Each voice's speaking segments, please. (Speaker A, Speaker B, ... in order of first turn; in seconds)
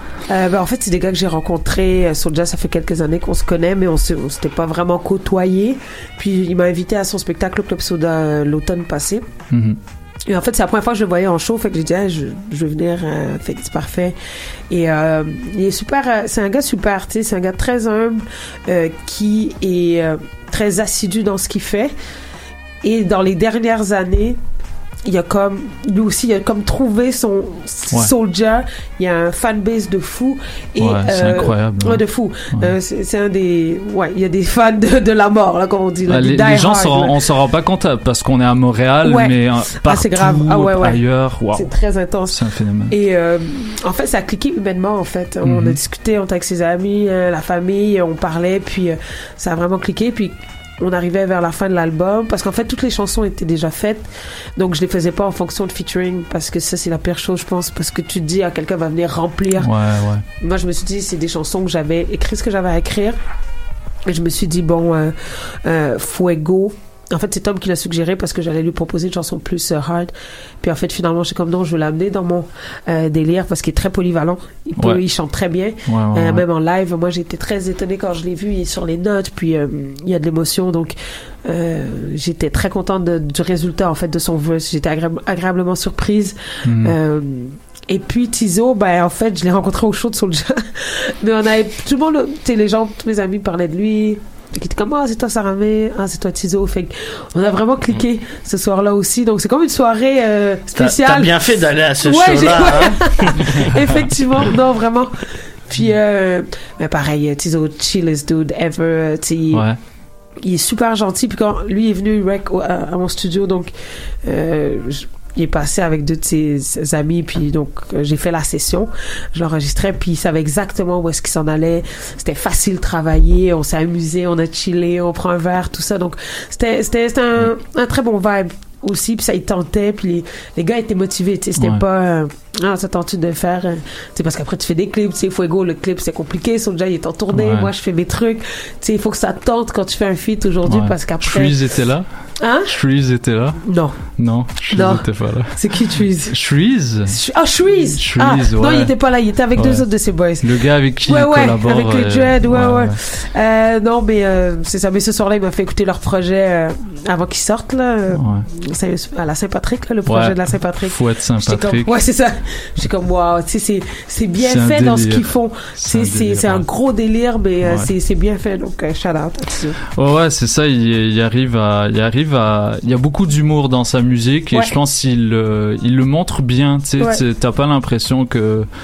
Speaker A: 0.3-9.2, 10.3-14.2, 14.7-21.9, 22.8-24.4, 25.1-37.2, 39.0-41.0, 41.5-54.0, 54.6-59.7, 60.4-63.2, 64.1-101.3, 102.0-105.1, 105.7-109.6, 110.4-113.7, 114.2-141.6, 142.4-142.7, 143.6-143.9, 144.7-145.0, 145.6-146.4, 147.1-150.5, 151.0-169.8
Speaker B: 9.5-9.8, 30.8-32.8, 36.1-41.7, 42.3-42.9, 45.4-45.8, 59.5-60.2, 74.8-75.0, 75.8-76.4, 86.6-87.0, 109.5-109.8, 131.6-131.8, 137.3-137.7, 140.6-142.1, 142.7-143.6, 144.2-147.2, 147.9-148.9, 149.5-149.9, 150.4-153.0, 158.1-158.4, 160.0-161.9, 164.3-166.7, 167.6-167.9, 169.9-178.7
Speaker C: 100.7-103.7